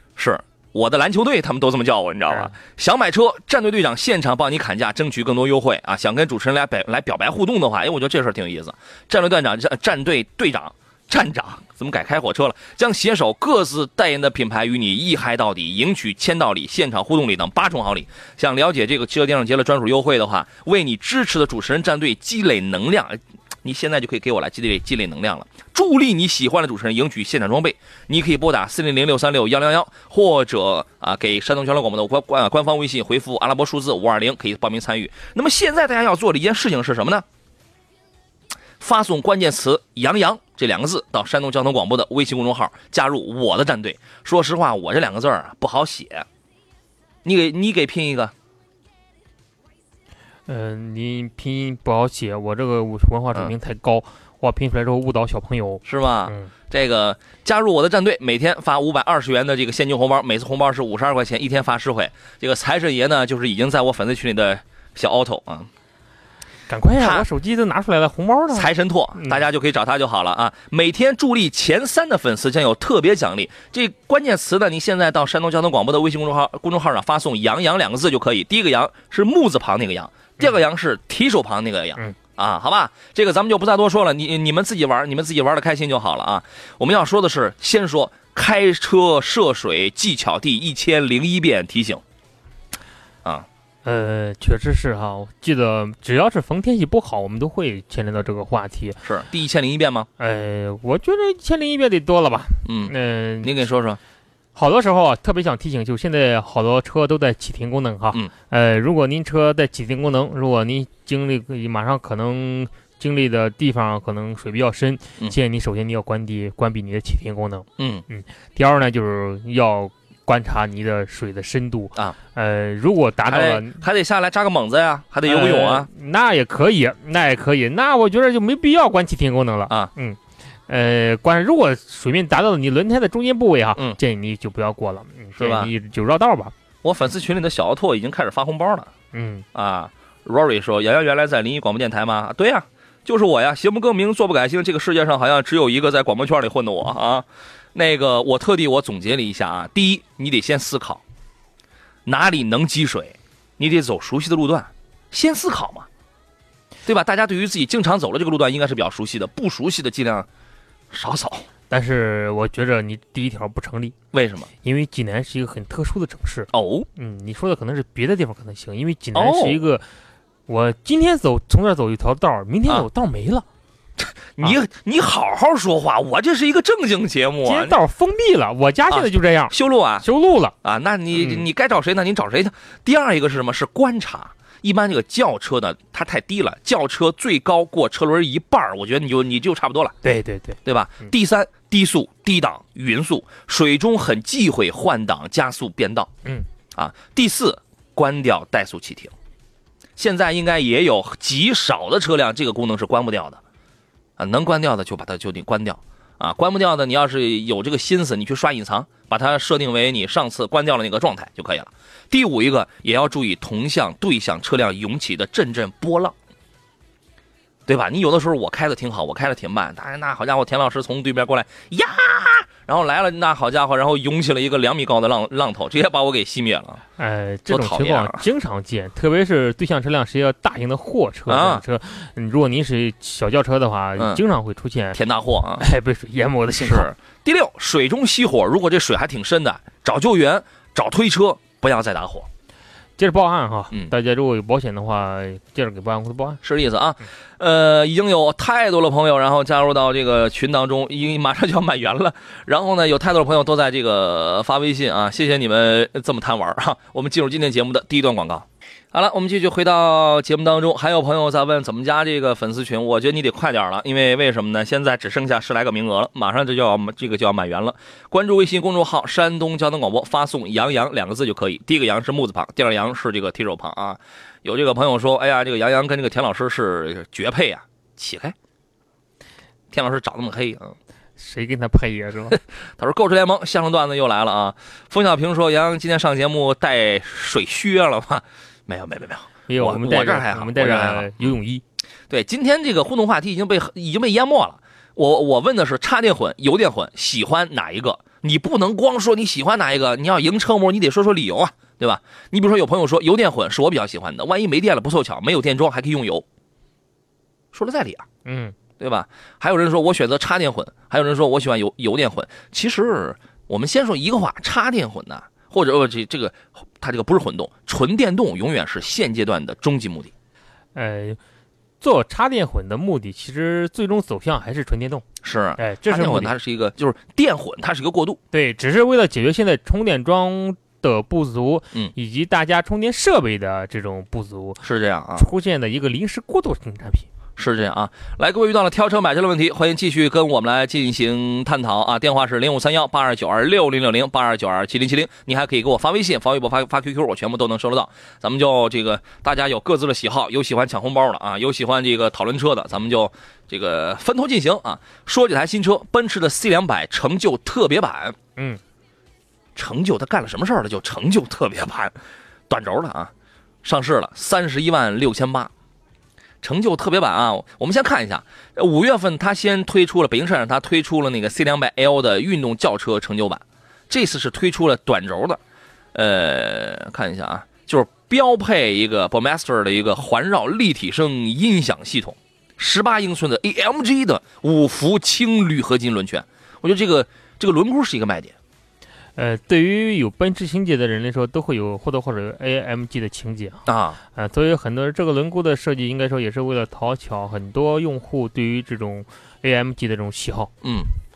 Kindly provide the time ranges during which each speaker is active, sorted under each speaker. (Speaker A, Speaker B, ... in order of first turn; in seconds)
Speaker A: 0.2-37.2, 38.8-46.2, 47.2-48.3, 55.9-65.7, 67.0-67.2, 68.5-92.0, 99.0-100.1, 102.6-104.0, 117.8-118.0, 123.2-125.9, 135.4-135.7, 136.8-138.9, 139.5-151.0, 152.1-155.9, 156.8-160.3, 160.9-161.4, 164.1-164.5, 166.5-166.9, 169.1-169.6, 174.0-177.8, 178.9-180.1, 180.6-189.9, 190.6-196.1, 196.8-199.1, 200.0-203.4, 204.2-216.1, 217.7-226.8, 227.5-228.2, 231.3-231.6, 234.9-235.6, 236.6-242.3, 246.4-278.3, 279.7-280.7, 282.8-291.4, 292.1-306.2, 307.5-308.0, 308.8-320.1, 325.2-328.2, 334.6-335.3, 337.4-358.2, 359.6-361.9, 362.5-363.1, 363.6-365.5, 366.4-375.4, 375.9-388.3, 393.7-394.0, 400.6-400.9
Speaker B: 2.3-2.5, 50.5-56.5, 66.7-69.4, 93.8-99.0, 100.2-103.5, 104.5-123.8, 125.2-136.5, 139.1-139.4, 161.7-163.9, 164.6-169.8, 170.5-173.4, 177.4-180.5, 181.1-181.4, 190.0-190.6, 227.0-235.0, 235.5-236.9, 243.0-246.4, 281.2-282.4, 289.5-291.6, 308.2-308.6, 320.7-321.2, 321.8-325.0, 325.6-326.3, 328.3-334.6, 335.1-337.1, 358.4-358.6, 389.1-400.5